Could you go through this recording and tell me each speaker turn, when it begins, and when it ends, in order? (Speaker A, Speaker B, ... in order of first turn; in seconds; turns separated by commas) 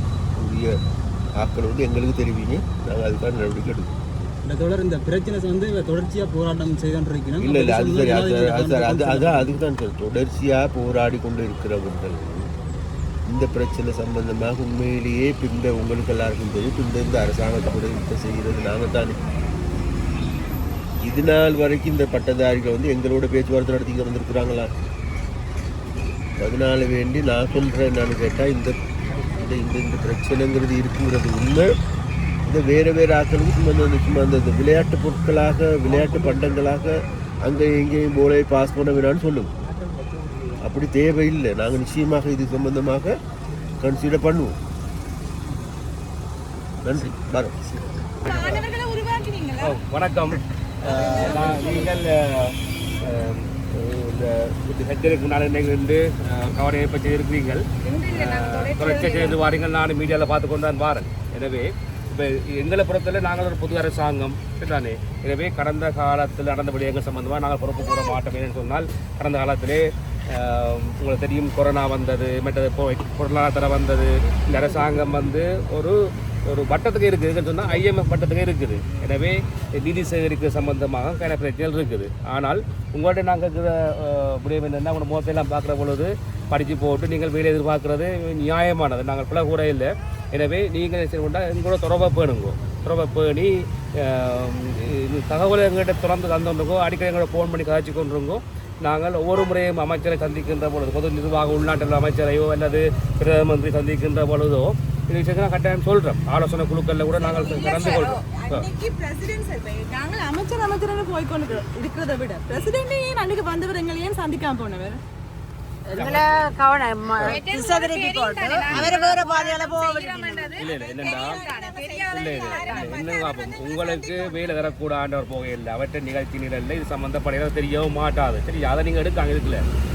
Speaker A: 0.4-0.7, Speaker A: 1.4-3.9, Speaker B: 4.4-9.5, Speaker A: 7.4-12.4, Speaker A: 13.3-19.2, Speaker A: 21.0-24.7, Speaker A: 26.4-28.7, Speaker A: 29.3-31.7, Speaker A: 32.5-39.5, Speaker B: 39.9-40.5, Speaker A: 40.6-43.1, Speaker A: 43.8-44.5, Speaker A: 46.8-47.5, Speaker C: 48.2-49.8, Speaker D: 48.2-48.6, Speaker D: 49.6-108.7, Speaker C: 50.8-51.9, Speaker C: 57.8-59.4, Speaker C: 107.2-115.0, Speaker E: 115.9-120.6, Speaker D: 115.9-116.3, Speaker C: 117.2-124.6, Speaker D: 118.7-119.0, Speaker D: 120.6-121.4, Speaker E: 121.1-123.0, Speaker D: 122.1-129.6